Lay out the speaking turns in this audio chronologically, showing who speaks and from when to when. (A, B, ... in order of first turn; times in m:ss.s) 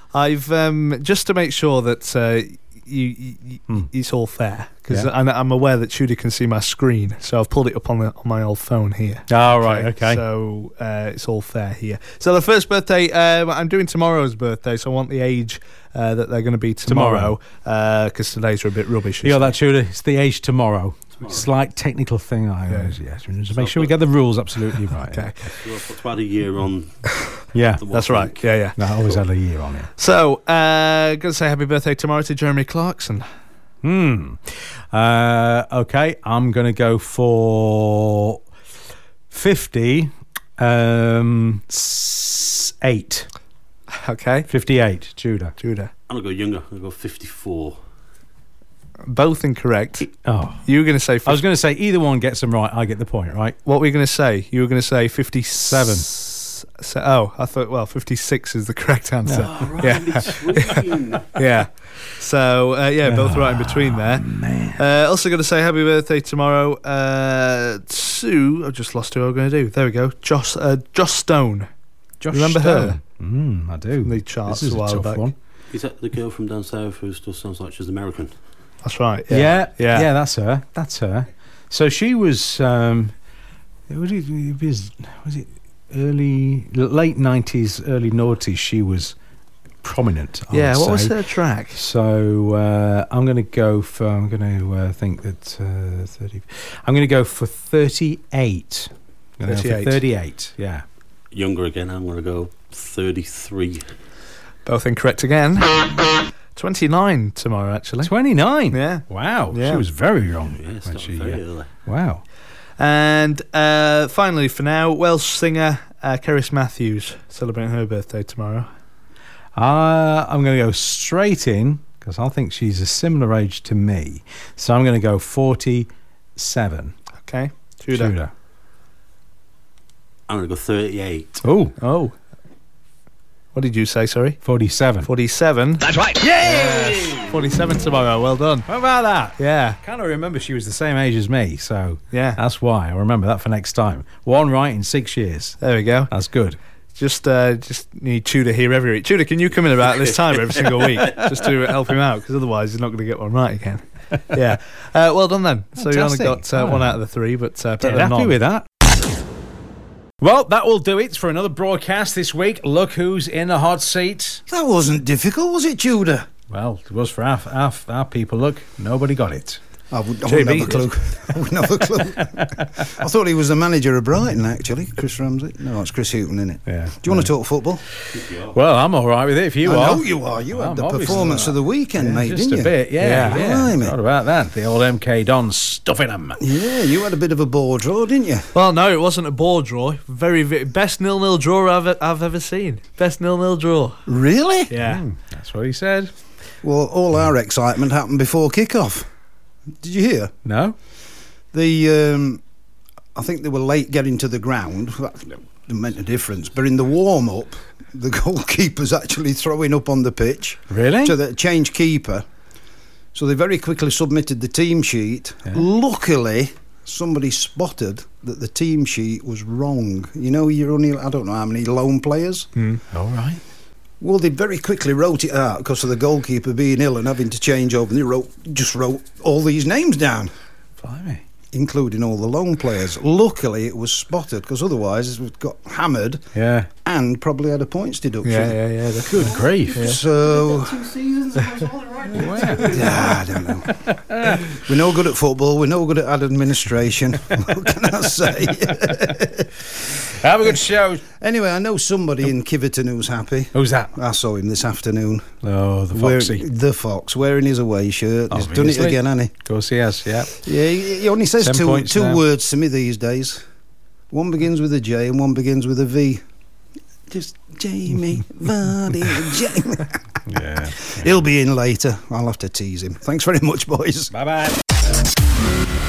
0:00.1-0:19.5 A
0:09.3-0:10.2 B
0:16.9-0:17.4 B
0:19.2-0:25.3 B
0:21.2-0:21.5 C
0:22.7-0:22.9 A
0:23.6-0:23.9 C
0:25.0-0:25.5 A
0:25.5-0:27.1 C
0:27.5-0:27.8 B
0:27.8-0:28.4 C
0:27.9-0:28.8 A
0:28.8-0:29.9 B
0:30.0-0:33.3 A
0:33.8-0:38.4 B
0:39.3-0:43.3 B
0:43.9-0:44.5 A
0:44.5-0:45.6 B
0:45.6-0:45.9 A
0:46.1-0:47.8 C
0:49.1-0:50.1 A
0:50.2-0:50.7 B
0:50.7-0:51.4 A
0:51.2-0:53.6 B
0:53.6-1:00.8 A
0:55.7-0:56.1 B
0:59.3-1:01.3 C
1:01.3-1:04.2 A
1:03.1-1:04.8 B
1:04.8-1:11.7 A
1:12.2-1:15.3 B
1:12.3-1:13.0 A
1:14.0-1:15.3 A
1:15.7-1:18.3 C
1:18.8-1:20.1 A
1:19.3-1:23.1 B
1:23.9-1:29.2 B
1:29.8-1:31.1 B
1:30.5-1:31.8 A
1:31.7-1:40.8 B
1:39.4-1:40.0 A
1:41.3-1:43.9 C
1:44.7-1:45.7 A
1:46.6-1:48.1 A
1:48.0-1:52.2 B
1:48.7-1:49.8 A
1:50.6-1:51.7 C
1:52.8-1:58.7 A
1:59.6-2:06.9 B
2:07.2-2:08.2 A
2:07.9-2:08.3 B
2:10.3-2:11.4 C
2:11.4-2:11.8 B
2:11.8-2:12.2 A
2:13.6-2:14.4 A
2:14.4-2:15.1 B
2:15.0-2:15.9 A
2:15.9-2:17.4 B
2:16.4-2:18.7 A
2:18.7-2:26.6 B
2:19.4-2:19.8 A
2:22.1-2:22.4 A
2:25.6-2:26.1 A
2:27.0-2:38.4 A
2:30.8-2:31.7 B
2:35.8-2:37.0 B
2:37.8-2:38.7 B
2:40.2-2:44.4 B
2:44.5-2:46.3 D
2:46.5-2:49.6 B
2:49.9-2:57.8 D
2:50.3-2:50.9 A
2:56.7-2:57.3 B
2:58.0-3:06.4 B
2:58.1-2:58.6 C
2:59.6-3:04.0 D
3:03.0-3:03.4 A
3:06.4-3:08.5 D
3:08.5-3:14.0 A
3:14.1-3:14.7 D
3:14.7-3:15.0 A
3:14.8-3:16.1 B
3:16.6-3:19.1 D
3:19.8-3:20.3 D
3:20.4-3:20.8 B
3:21.5-3:22.4 D
3:23.2-3:32.2 D
3:30.7-3:31.2 B
3:33.1-3:42.5 D
3:42.9-3:43.4 B
3:44.0-3:50.3 D
3:50.8-3:51.2 B
3:51.5-3:56.2 D
3:56.4-3:56.7 B
3:56.8-3:58.6 D
3:58.2-4:00.0 A
3:59.1-4:00.0 B
3:59.7-4:09.5 D
4:02.1-4:04.6 B
4:08.7-4:09.1 B
4:10.0-4:11.1 B
4:11.1-4:15.3 D
4:13.5-4:13.9 B
4:15.4-4:16.4 B
4:15.9-4:19.3 D
4:18.3-4:20.4 B
4:20.4-4:23.4 D
4:21.4-4:22.2 B
4:24.1-4:26.2 D
4:27.1-4:30.0 D
4:30.3-4:31.1 B
4:30.8-4:34.1 D
4:34.1-4:34.6 B